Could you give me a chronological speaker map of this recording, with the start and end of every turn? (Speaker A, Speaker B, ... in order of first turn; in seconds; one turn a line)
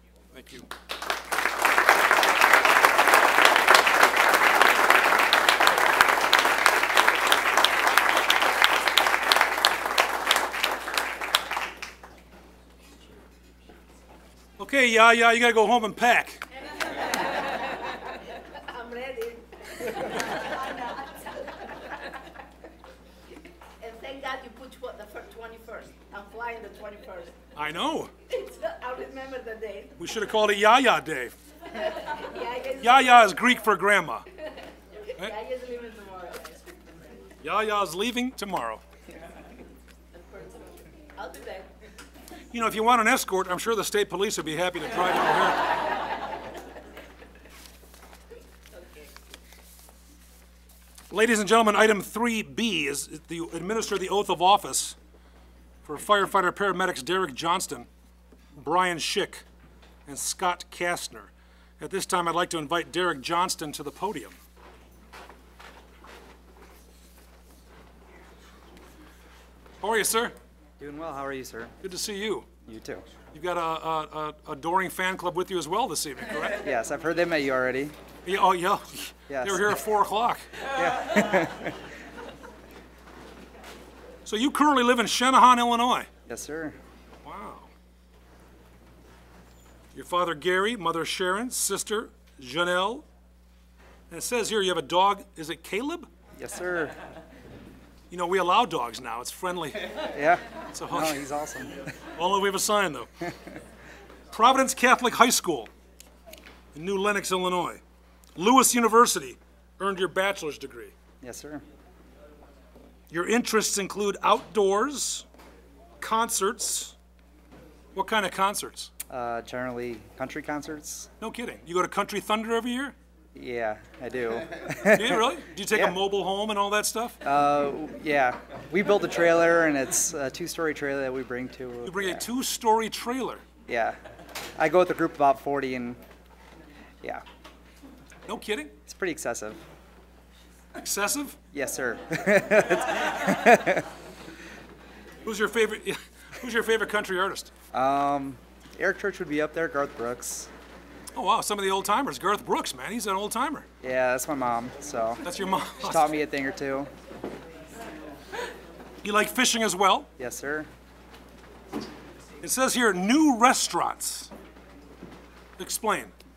Speaker A: 0.3-0.7
Speaker A: 14.6-16.4
Speaker B: 16.9-22.1
Speaker B: 23.8-27.4
Speaker A: 27.5-28.1
Speaker B: 28.3-30.0
Speaker A: 30.0-31.3
Speaker B: 31.8-33.3
Speaker A: 32.8-34.3
Speaker B: 35.1-36.9
Speaker A: 37.4-38.8
Speaker B: 40.1-41.7
Speaker A: 42.5-45.7
Speaker A: 51.1-55.0
Speaker A: 55.8-57.9
Speaker A: 58.5-59.4
Speaker A: 60.1-64.4
Speaker A: 69.8-70.3
Speaker C: 70.8-71.8
Speaker A: 71.8-72.5
Speaker C: 72.6-73.0
Speaker A: 73.3-76.6
Speaker C: 76.6-78.0
Speaker A: 78.2-80.6
Speaker C: 79.3-79.8
Speaker C: 80.6-81.8
Speaker A: 84.2-86.1
Speaker C: 86.3-86.8
Speaker A: 87.2-87.7
Speaker A: 89.9-93.0
Speaker A: 94.1-96.1
Speaker C: 96.4-97.0
Speaker A: 98.1-100.0
Speaker C: 100.0-101.9
Speaker A: 100.7-101.2
Speaker A: 102.1-103.2
Speaker A: 104.3-105.7
Speaker A: 106.7-107.8
Speaker A: 108.3-110.9
Speaker C: 111.2-111.6
Speaker A: 113.1-115.2
Speaker A: 116.0-116.9
Speaker A: 117.9-118.9
Speaker C: 119.1-121.1
Speaker A: 121.2-123.0
Speaker C: 123.3-126.0
Speaker A: 124.8-127.2
Speaker C: 127.2-132.3
Speaker A: 131.8-133.4
Speaker C: 133.7-134.0
Speaker C: 134.6-136.0
Speaker A: 138.2-138.7
Speaker C: 138.8-139.6
Speaker A: 140.7-141.4
Speaker C: 141.5-143.9
Speaker A: 145.2-147.5
Speaker C: 147.7-150.5
Speaker A: 151.1-153.7
Speaker C: 153.8-155.2
Speaker A: 155.2-156.2
Speaker C: 155.8-156.9
Speaker A: 159.0-160.1
Speaker C: 160.2-160.7
Speaker A: 162.4-164.3
Speaker A: 165.6-166.1